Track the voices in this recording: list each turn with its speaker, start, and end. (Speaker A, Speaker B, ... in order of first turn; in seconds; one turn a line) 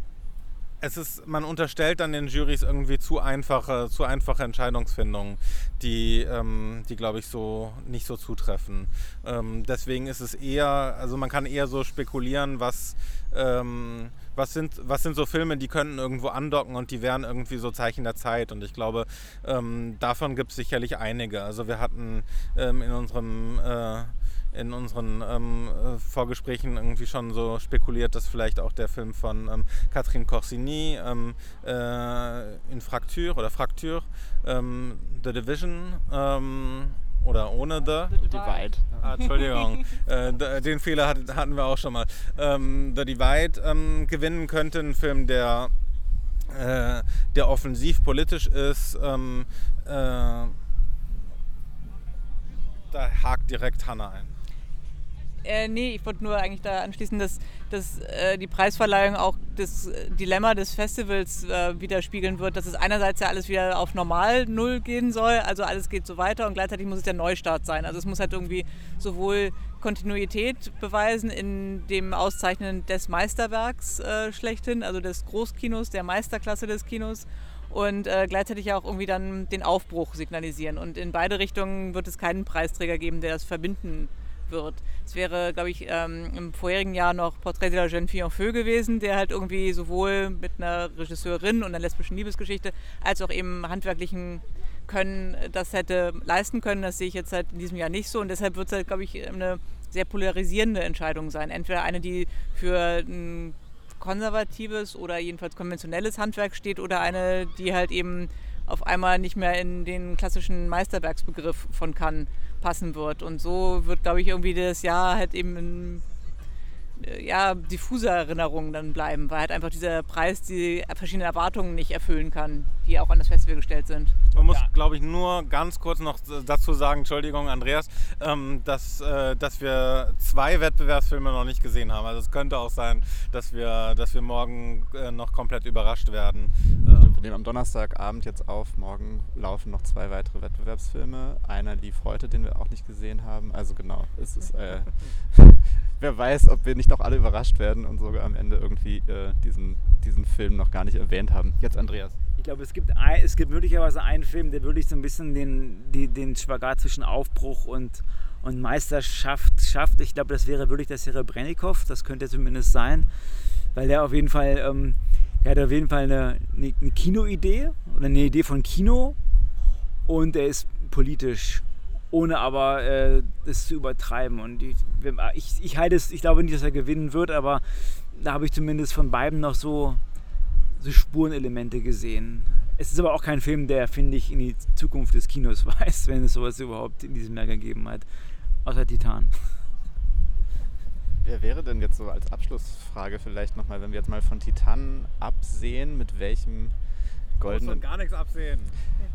Speaker A: 0.8-38.2
Speaker B: 38.1-39.3
Speaker C: 38.1-38.6
Speaker A: 39.0-45.7
Speaker A: 46.5-50.5
Speaker A: 52.9-54.4
Speaker C: 55.4-116.0
Speaker C: 117.0-124.2
Speaker D: 124.3-124.7
Speaker A: 124.3-137.2
Speaker B: 136.9-152.2
Speaker D: 152.4-163.1
Speaker D: 163.7-169.2
Speaker D: 170.1-180.0
Speaker D: 180.7-188.1
Speaker D: 188.6-189.5
Speaker B: 191.2-196.7
Speaker B: 197.4-197.8
Speaker A: 197.4-198.8